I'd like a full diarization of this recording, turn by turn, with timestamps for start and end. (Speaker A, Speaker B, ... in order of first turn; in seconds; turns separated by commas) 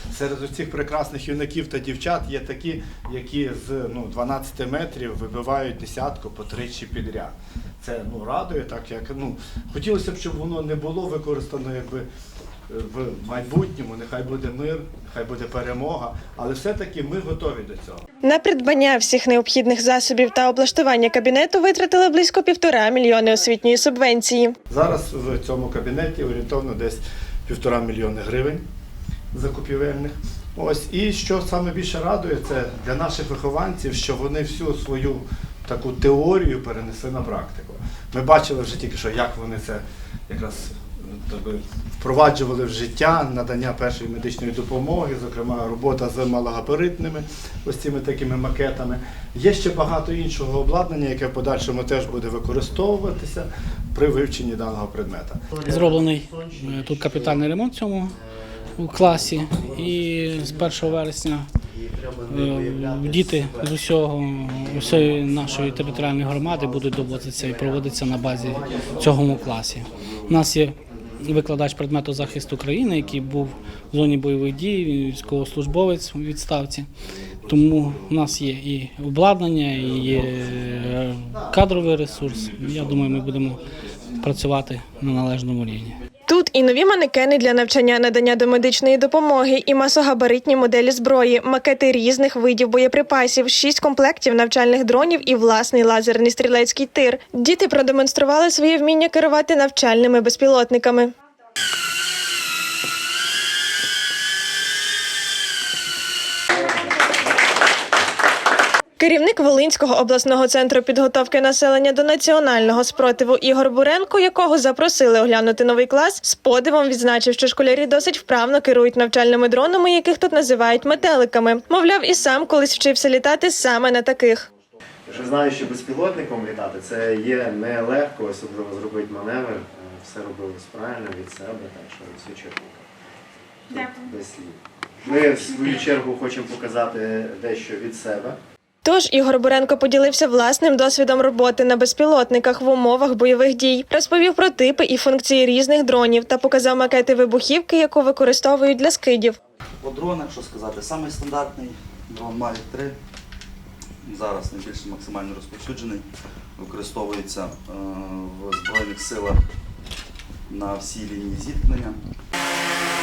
Speaker A: 0.1-12.1, Speaker A: 12.7-18.1, Speaker B: 18.2-24.6, Speaker A: 24.7-28.6, Speaker A: 29.3-55.5, Speaker C: 55.5-57.5, Speaker D: 55.6-58.2, Speaker C: 58.1-61.0, Speaker D: 58.7-61.5, Speaker C: 61.6-63.8, Speaker D: 62.3-76.9, Speaker C: 64.5-70.4, Speaker C: 70.9-71.2, Speaker C: 73.0-73.8, Speaker C: 77.4-78.2, Speaker D: 77.4-86.0, Speaker C: 79.9-80.5, Speaker C: 81.3-82.2, Speaker C: 82.9-83.3, Speaker B: 86.3-101.1, Speaker B: 109.0-124.5, Speaker C: 125.1-132.9, Speaker C: 133.7-138.4, Speaker B: 138.8-149.4, Speaker E: 149.8-152.9, Speaker E: 154.0-156.1, Speaker E: 156.6-159.4, Speaker E: 160.5-162.0